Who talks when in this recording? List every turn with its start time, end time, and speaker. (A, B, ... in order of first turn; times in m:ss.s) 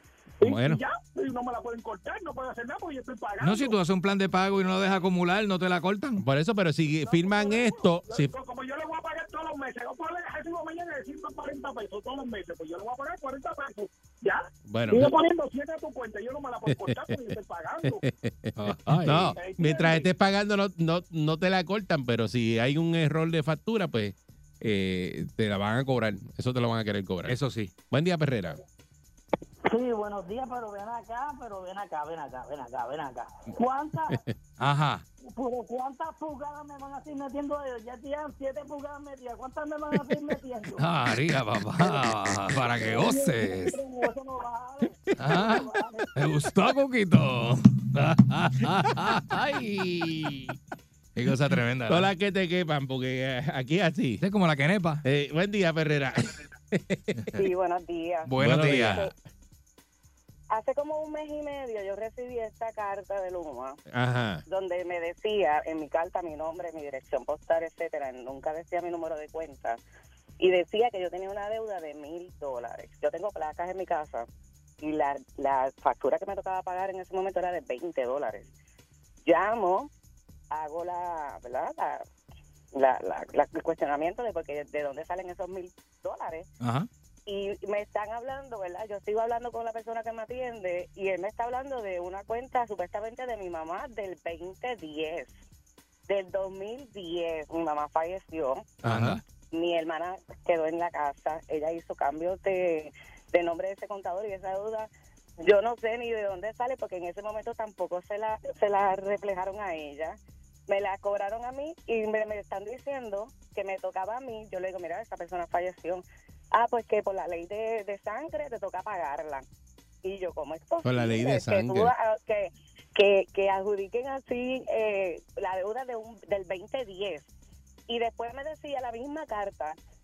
0:00.4-0:00.8 A
0:00.4-0:03.7 B
0:03.4-0:06.2 C
0:06.2-0:08.3 A
0:07.2-0:18.0 B
0:14.6-0:15.2 A
0:16.6-0:27.4 A
0:18.6-0:19.4 C
0:19.4-0:20.1 B
0:27.2-0:27.7 C
0:27.9-0:28.6 A
0:29.7-0:34.2 D
0:34.6-0:35.0 C
0:35.2-0:40.9 D
0:40.8-0:43.8 C
0:42.8-0:46.1 D
0:45.2-0:50.6 C
0:51.2-0:52.1 C
0:51.9-0:54.2 A
0:54.2-0:55.0 C
0:55.0-0:57.2 A
0:57.1-0:57.5 C
0:57.3-0:59.1 E
0:58.2-0:59.1 C
0:58.4-0:59.1 A
1:00.5-1:03.8 E
1:03.9-1:04.4 A
1:04.5-1:09.8 E
1:10.4-1:14.3 E
1:14.8-1:18.5 E
1:19.2-1:19.9 E
1:20.5-1:22.0 E
1:22.7-1:26.4 E
1:26.6-1:26.9 C
1:27.3-1:35.3 E
1:36.1-1:38.6 E
1:38.8-1:39.2 A
1:38.8-1:39.2 C
1:39.5-1:44.9 E
1:45.4-1:59.4 E
2:00.0-2:07.3 E
2:00.8-2:01.9 A
2:07.9-2:09.8 E